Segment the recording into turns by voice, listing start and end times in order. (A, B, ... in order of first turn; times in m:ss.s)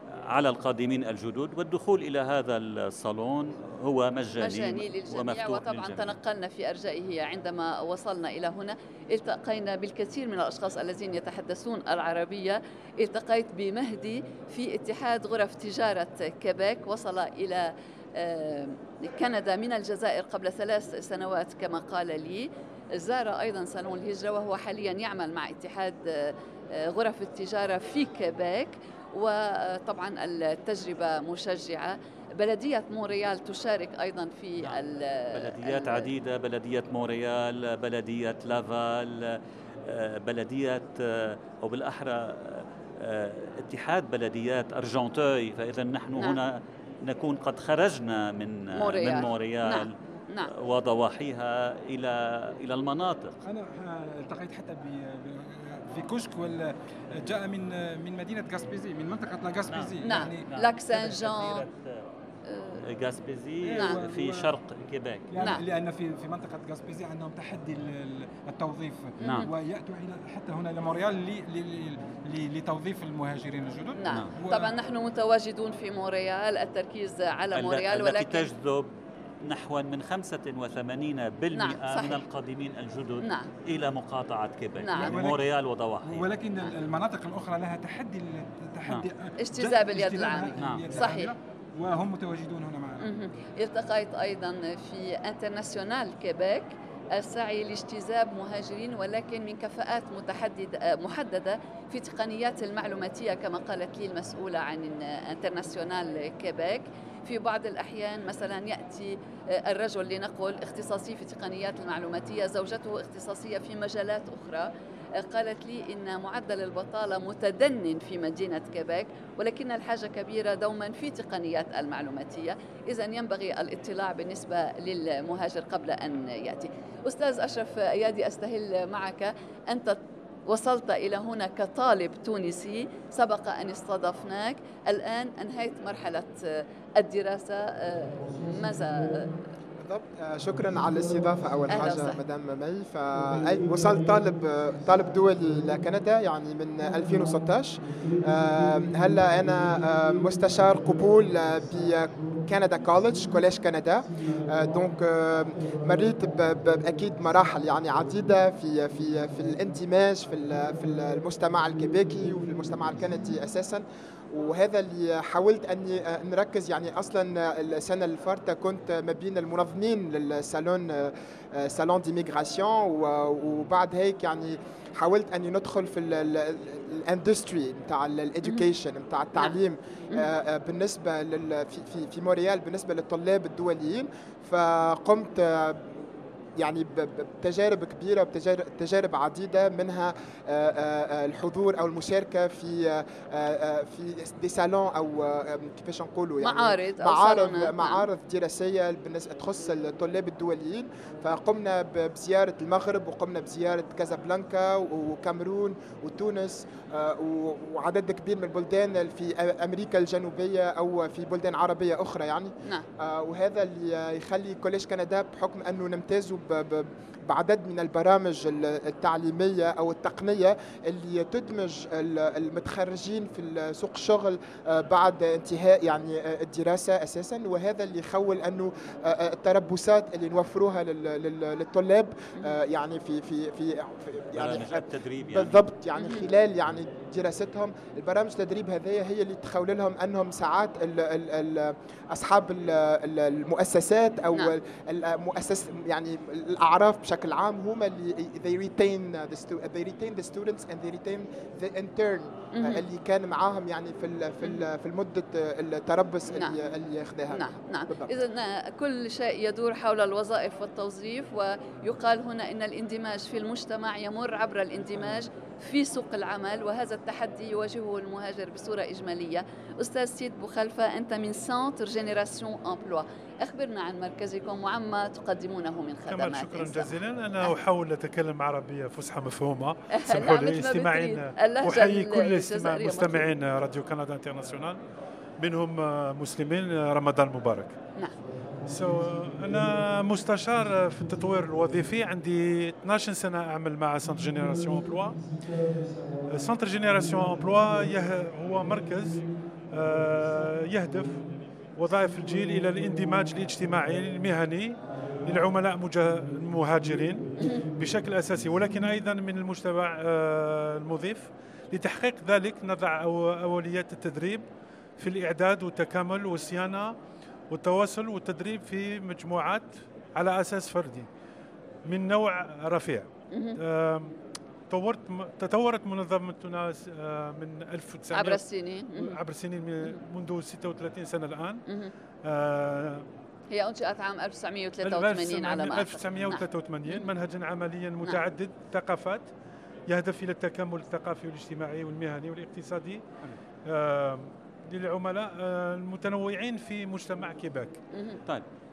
0:00.3-0:06.2 A
0:04.4-0:36.1 B
0:35.3-0:50.0 A
0:48.8-0:50.5 B
0:50.5-0:53.4 A
0:53.4-1:00.5 C
0:59.7-1:02.0 A
1:00.0-1:01.6 B
1:02.5-1:02.8 B
1:02.8-1:05.6 A
1:03.6-1:04.5 C
1:05.3-1:14.7 C
1:09.2-1:09.5 B
1:09.2-1:09.5 A
1:14.0-1:18.5 B
1:17.5-1:18.9 A
1:19.4-1:26.3 A
1:21.5-1:22.2 B
1:23.2-1:23.5 B
1:24.8-1:25.2 B
1:25.0-1:25.4 C
1:26.0-1:33.1 C
1:29.4-1:31.3 B
1:30.6-1:31.0 A
1:33.0-2:19.4 B
2:19.8-3:05.9 D
2:21.7-2:22.2 B
3:06.6-4:18.1 D
3:16.4-3:18.1 B
3:54.4-3:55.6 A
3:56.0-3:56.2 B
4:12.6-4:12.8 B
4:17.3-4:37.5 B
4:36.1-4:44.8 E
4:40.0-4:43.2 B
4:45.4-4:47.8 E
4:48.6-4:55.3 E
4:56.3-5:14.4 E
5:15.0-5:17.0 E
5:17.5-5:21.1 E
5:21.9-5:24.2 E
5:23.3-5:23.6 B
5:24.7-5:31.6 E
5:28.1-5:29.2 B
5:32.2-5:33.0 E
5:33.5-5:37.1 B
5:34.8-5:39.3 E
5:39.9-5:43.0 E
5:43.7-5:47.8 E
5:47.9-5:48.2 B